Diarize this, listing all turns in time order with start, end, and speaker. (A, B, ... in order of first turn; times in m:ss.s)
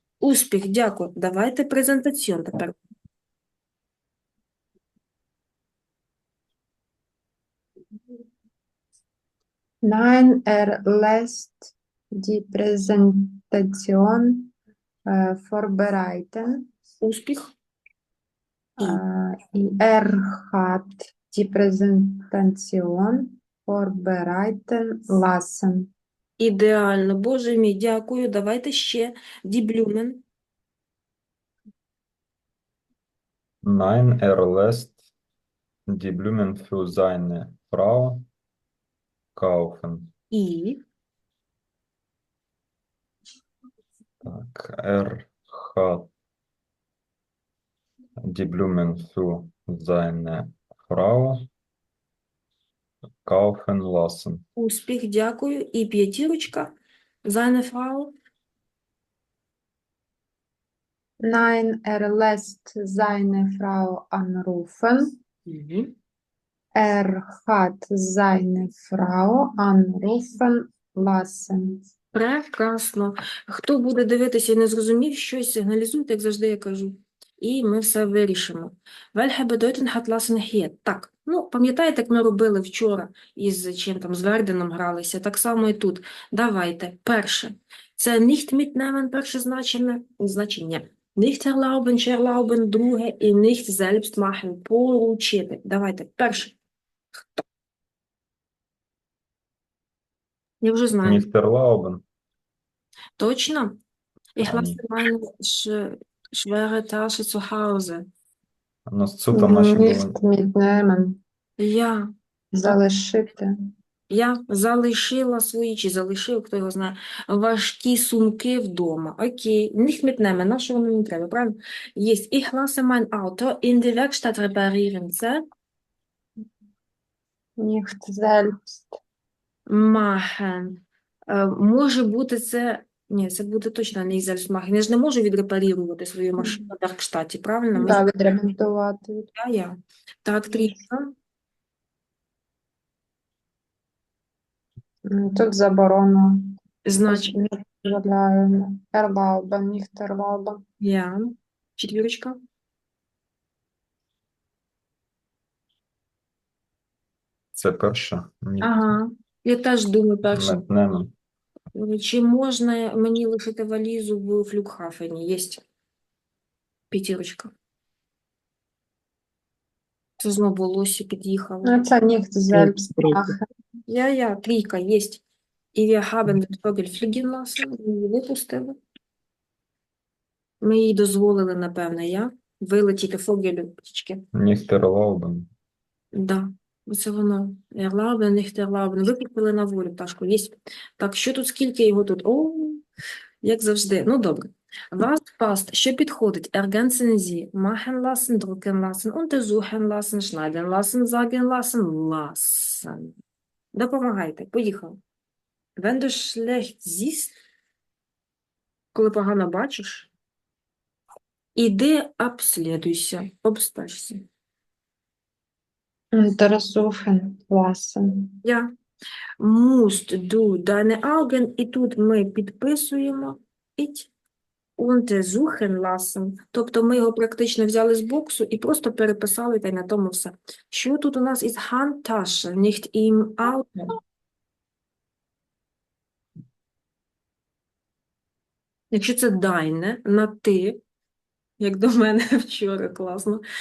0:00.2-0:02.8 A
0:09.8-0:14.5 B
0:15.0-0:16.7 B
0:17.0-0:17.5 A
0:18.8-0:25.9 B
0:26.4-0:30.2 A
0:33.6-0:35.0 C
0:35.9-0:38.2 C
0:39.4-0:40.1 C
0:40.3-0:40.8 A
0:44.2-0:46.1 C
0:48.2-0:51.5 C
0:53.2-0:54.4 C
0:54.6-0:56.7 A
0:57.2-0:58.1 A
1:01.2-1:05.2 B
1:05.5-1:05.9 A
1:06.8-1:11.8 B
1:12.1-1:36.6 A
1:40.6-1:41.3 A
1:41.0-1:42.0 C
1:43.2-1:43.8 A
1:44.4-1:48.1 A
1:44.4-1:44.8 C
1:48.9-1:50.1 C
1:49.3-1:51.2 B
1:51.6-1:52.1 A
1:52.5-1:53.6 B
1:54.1-2:05.4 A
2:07.6-2:09.0 B
2:09.7-2:18.0 A
2:17.7-2:19.3 B
2:19.4-2:21.1 A
2:25.0-2:26.6 B
2:26.8-2:27.4 A
2:27.1-2:30.6 B
2:30.8-2:32.4 A
2:37.6-2:39.0 C
2:38.6-2:40.6 A
2:40.3-2:41.1 C
2:41.8-2:45.6 A
2:46.9-2:47.5 A
2:50.2-2:51.8 A
2:51.6-2:53.4 B
2:53.9-2:55.2 A
2:55.7-2:58.8 A
3:00.6-3:04.2 A
3:04.3-3:05.5 C
3:06.1-3:12.8 A
3:13.4-3:23.1 A
3:23.7-3:25.0 A
3:25.8-3:27.3 A
3:28.9-3:30.1 A
3:31.6-3:34.2 A
3:36.1-3:38.4 B
3:38.4-3:38.7 A
3:39.4-3:44.1 A
3:44.8-3:53.9 A
3:58.9-4:00.8 A
4:01.6-4:03.4 A